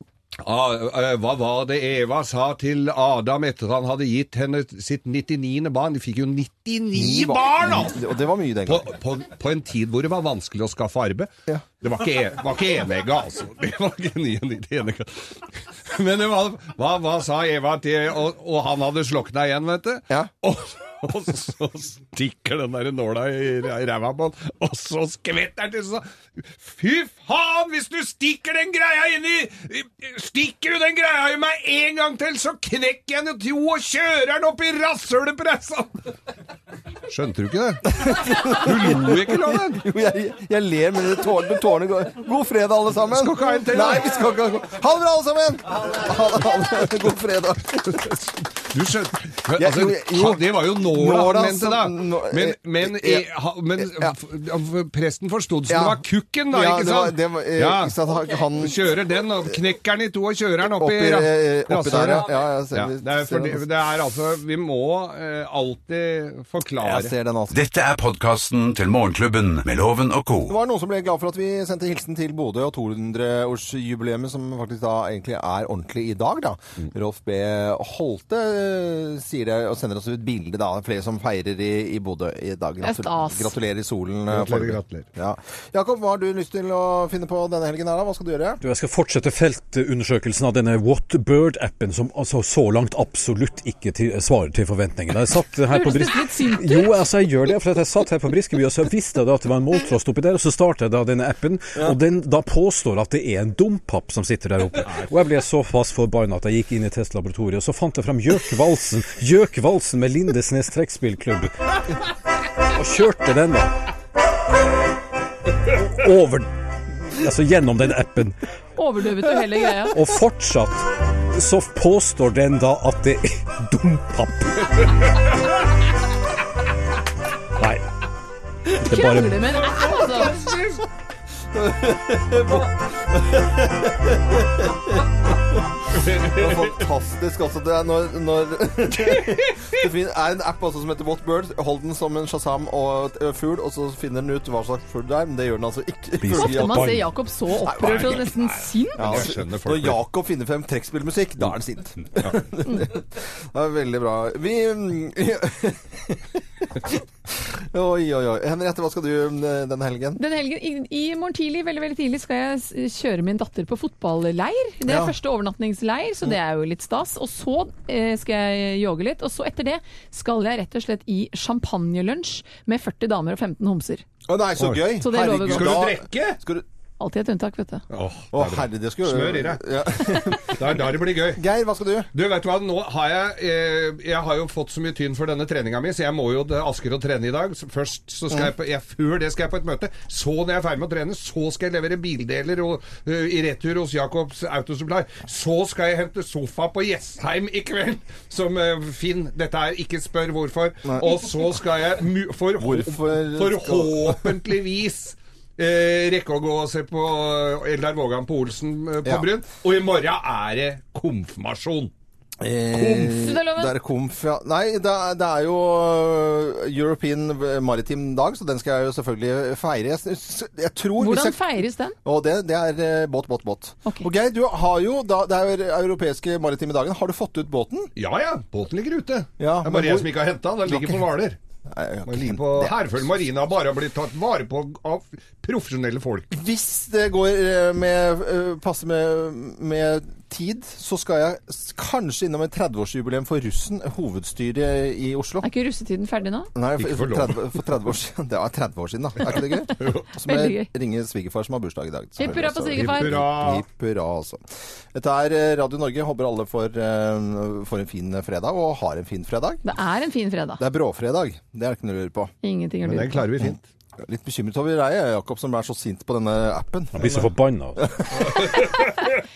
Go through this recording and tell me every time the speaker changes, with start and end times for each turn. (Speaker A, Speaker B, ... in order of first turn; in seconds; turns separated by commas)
Speaker A: 0.4-8.0, Speaker B: 6.9-8.9, Speaker A: 8.7-36.0, Speaker A: 37.1-39.8, Speaker B: 37.9-48.1, Speaker A: 43.1-44.3, Speaker A: 48.7-58.0, Speaker B: 49.5-53.2, Speaker B: 53.8-54.1, Speaker B: 55.7-58.8, Speaker A: 58.6-67.1, Speaker B: 60.7-63.6, Speaker B: 66.8-67.6, Speaker C: 67.5-70.5, Speaker B: 70.5-88.6, Speaker D: 82.8-83.5, Speaker A: 84.3-85.1, Speaker E: 88.6-112.0, Speaker D: 95.7-96.9, Speaker E: 112.6-113.7, Speaker E: 115.7-118.4, Speaker D: 118.8-120.0, Speaker E: 119.9-125.1, Speaker E: 127.6-127.8, Speaker E: 128.8-129.4, Speaker D: 128.8-130.4, Speaker A: 129.6-130.8, Speaker B: 131.5-135.4, Speaker A: 135.9-136.8, Speaker B: 136.0-147.0, Speaker A: 139.1-139.8, Speaker E: 146.2-147.1, Speaker D: 146.3-149.2, Speaker B: 147.6-148.3, Speaker A: 147.7-150.0, Speaker B: 149.0-160.2, Speaker D: 160.2-174.0, Speaker B: 164.8-165.1, Speaker B: 174.2-176.6, Speaker A: 174.6-174.9, Speaker D: 175.0-175.8, Speaker A: 175.5-176.4, Speaker D: 177.0-177.8, Speaker A: 177.9-179.6, Speaker B: 178.3-182.1, Speaker A: 180.5-181.4, Speaker A: 182.1-211.9, Speaker B: 200.8-201.4, Speaker B: 202.6-204.3, Speaker B: 212.4-221.5, Speaker A: 212.7-213.1, Speaker D: 213.1-213.7, Speaker D: 221.0-221.9, Speaker B: 222.0-227.9, Speaker A: 227.9-231.4, Speaker B: 229.4-231.0, Speaker B: 231.7-233.0, Speaker A: 232.1-236.3, Speaker B: 236.3-245.5, Speaker D: 245.4-246.5, Speaker B: 246.5-254.4, Speaker A: 246.8-247.4, Speaker A: 249.3-250.1, Speaker D: 250.2-250.7, Speaker D: 252.2-253.2, Speaker A: 252.7-253.6, Speaker B: 254.9-259.6, Speaker D: 259.6-260.6, Speaker B: 260.6-262.3, Speaker D: 262.4-263.3, Speaker A: 262.8-263.6, Speaker B: 264.0-268.6, Speaker E: 266.9-267.8